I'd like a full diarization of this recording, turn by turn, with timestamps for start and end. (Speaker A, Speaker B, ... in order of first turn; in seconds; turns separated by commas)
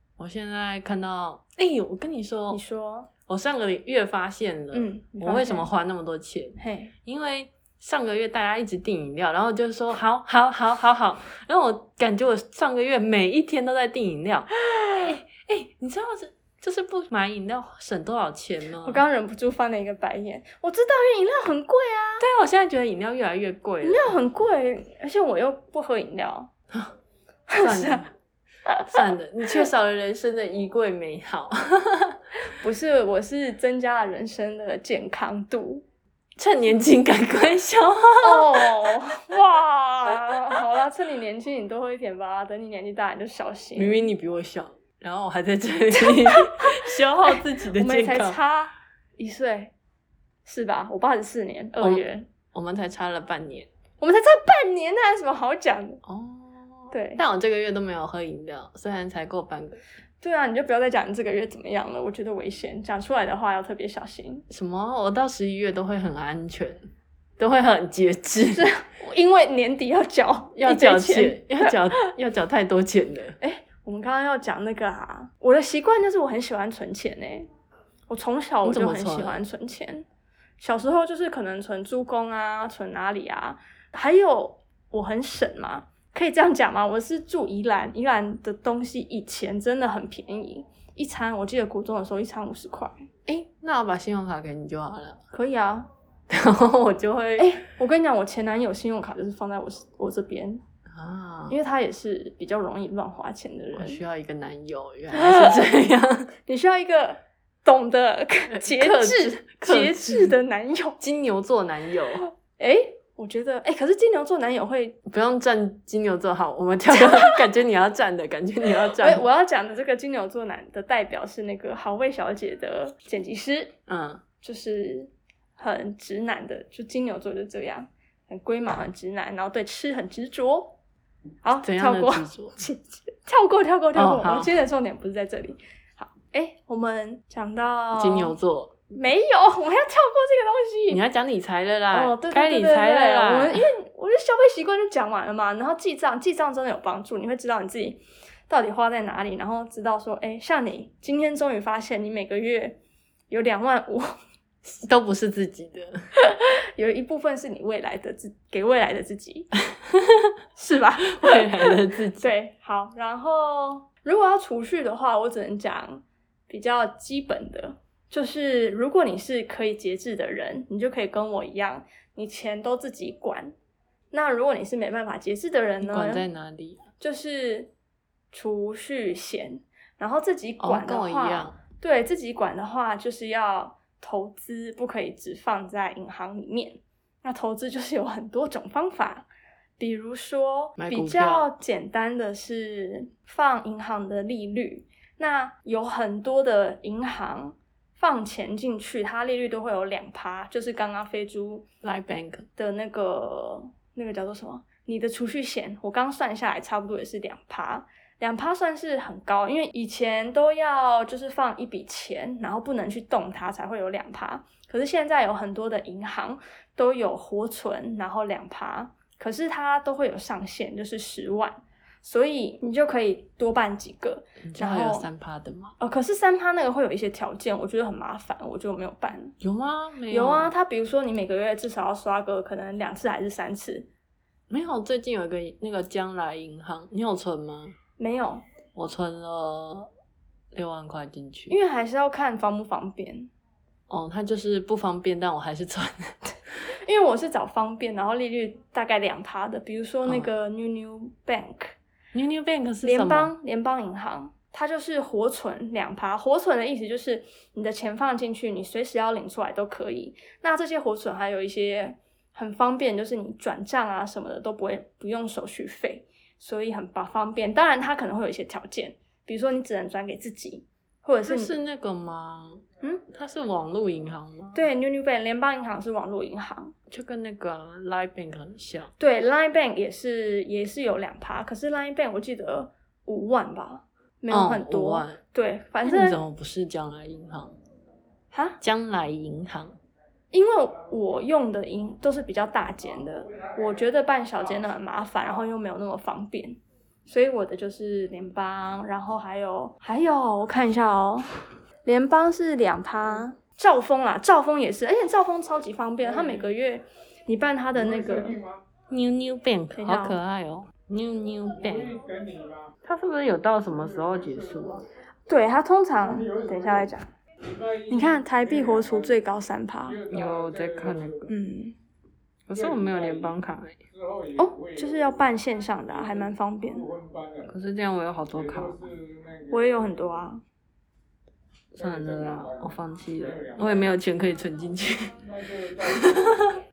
Speaker A: 0.2-2.6, Speaker B: 2.5-3.1, Speaker A: 3.3-19.0, Speaker B: 4.7-5.7, Speaker B: 6.6-6.9, Speaker B: 14.7-15.1, Speaker B: 18.8-22.2, Speaker A: 22.2-24.1, Speaker B: 23.8-26.5, Speaker B: 27.5-28.1, Speaker A: 27.6-28.1, Speaker B: 28.7-29.0, Speaker A: 28.9-32.2, Speaker B: 32.4-35.8, Speaker A: 36.4-39.0, Speaker B: 38.2-44.1, Speaker A: 43.8-48.4, Speaker B: 46.0-49.7, Speaker B: 50.5-52.3, Speaker A: 51.8-53.7, Speaker B: 54.0-56.0, Speaker A: 56.0-59.8, Speaker B: 56.9-57.2, Speaker B: 60.2-64.5, Speaker A: 64.5-66.8, Speaker A: 67.4-68.7, Speaker B: 68.5-72.0, Speaker A: 70.5-73.4, Speaker B: 73.4-77.5, Speaker B: 78.1-80.1, Speaker A: 78.6-79.4, Speaker B: 80.6-93.0, Speaker A: 93.3-95.2, Speaker B: 95.3-95.9, Speaker A: 96.3-97.6, Speaker B: 97.4-100.6, Speaker A: 100.9-101.6, Speaker B: 101.5-104.0, Speaker A: 103.8-106.3, Speaker B: 105.1-105.7, Speaker B: 106.5-111.0, Speaker A: 108.5-110.3, Speaker A: 111.0-112.2, Speaker B: 112.5-115.0, Speaker A: 115.1-119.2, Speaker B: 116.9-117.4, Speaker B: 118.9-123.8, Speaker A: 123.9-124.2, Speaker B: 124.4-130.8, Speaker B: 131.4-138.3, Speaker A: 131.6-132.6, Speaker A: 133.9-134.5, Speaker A: 137.9-138.8, Speaker B: 138.9-141.0, Speaker A: 140.9-143.7, Speaker B: 141.9-152.8, Speaker B: 153.3-154.1, Speaker A: 154.7-156.0, Speaker B: 156.2-159.5, Speaker A: 159.9-160.3, Speaker B: 160.6-173.5, Speaker A: 161.1-162.3, Speaker B: 174.1-176.3, Speaker A: 175.8-176.8, Speaker B: 177.0-177.7, Speaker B: 178.3-189.3, Speaker A: 180.6-181.6, Speaker B: 189.8-201.7, Speaker A: 190.8-191.5, Speaker A: 201.8-202.5, Speaker B: 202.6-225.1, Speaker A: 224.4-225.8, Speaker B: 225.8-229.3, Speaker A: 229.4-230.5, Speaker B: 230.1-233.9, Speaker A: 234.5-237.8, Speaker B: 238.0-238.4, Speaker A: 238.8-239.9, Speaker A: 240.5-241.6, Speaker B: 241.5-243.3, Speaker A: 243.9-246.2, Speaker B: 246.7-251.8, Speaker A: 252.1-253.3, Speaker B: 252.8-271.5, Speaker A: 271.2-274.6, Speaker B: 274.5-276.8, Speaker A: 276.9-278.9, Speaker B: 279.0-286.2, Speaker A: 284.3-285.2, Speaker A: 285.8-287.6, Speaker B: 288.3-288.6, Speaker A: 288.6-289.8, Speaker B: 290.3-301.3, Speaker B: 301.9-308.4, Speaker A: 308.9-312.0, Speaker B: 309.8-310.2, Speaker A: 312.8-314.9, Speaker B: 315.3-317.1, Speaker B: 317.7-320.0, Speaker A: 320.1-321.3, Speaker B: 321.3-321.8, Speaker A: 322.5-323.8, Speaker B: 324.4-327.0, Speaker A: 327.4-329.0, Speaker B: 329.5-330.4, Speaker A: 331.7-336.6